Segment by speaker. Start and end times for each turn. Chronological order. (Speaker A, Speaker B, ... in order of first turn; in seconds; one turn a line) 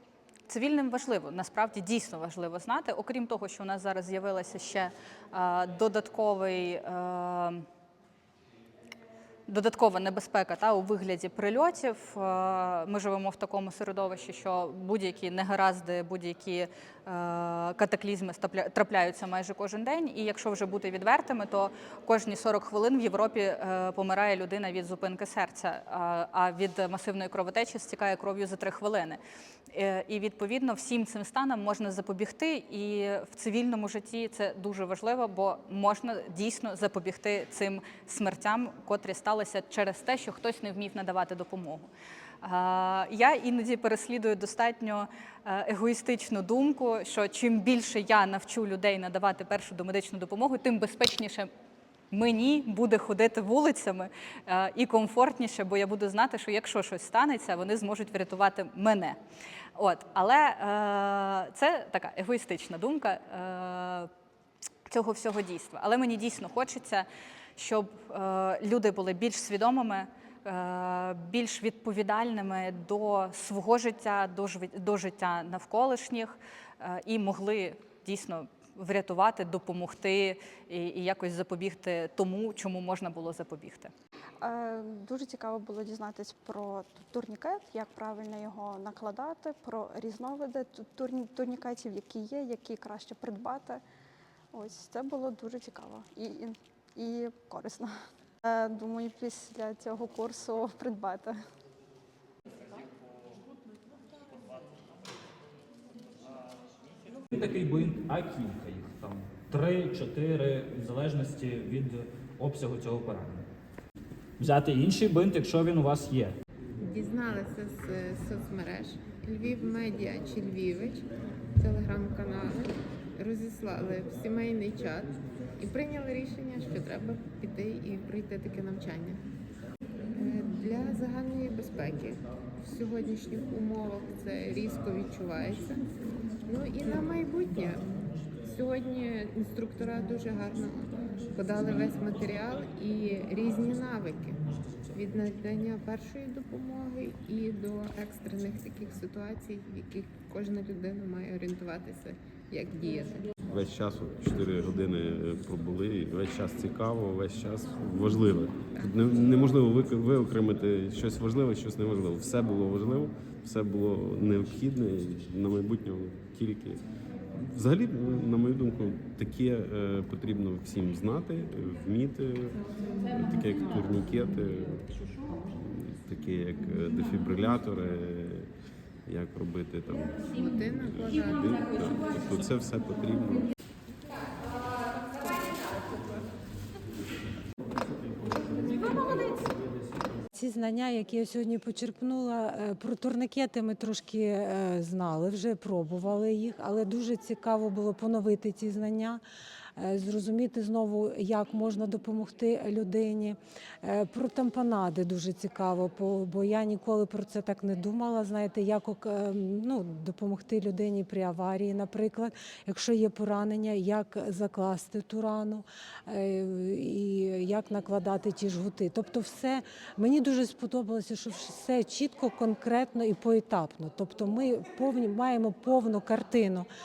Speaker A: 0.5-7.6
Speaker A: 9.5-29.2
Speaker A: 29.7-41.9
Speaker A: 42.4-51.5
Speaker A: 52.1-59.2
Speaker A: 59.8-64.1
Speaker A: 64.9-83.9
Speaker B: 84.4-93.8
Speaker B: 94.5-97.9
Speaker B: 98.4-101.3
Speaker C: 107.3-113.5
Speaker C: 114.4-116.3
Speaker D: 116.8-121.1
Speaker D: 121.6-129.2
Speaker D: 130.2-135.9
Speaker D: 136.5-137.8
Speaker D: 138.4-144.4
Speaker D: 144.9-153.3
Speaker E: 153.5-166.8
Speaker E: 167.5-178.5
Speaker E: 179.1-180.2
Speaker D: 180.2-181.4
Speaker E: 180.9-183.5
Speaker A: 184.4-186.2
Speaker A: 188.6-189.4
Speaker F: 190.3-199.2
Speaker F: 199.8-226.7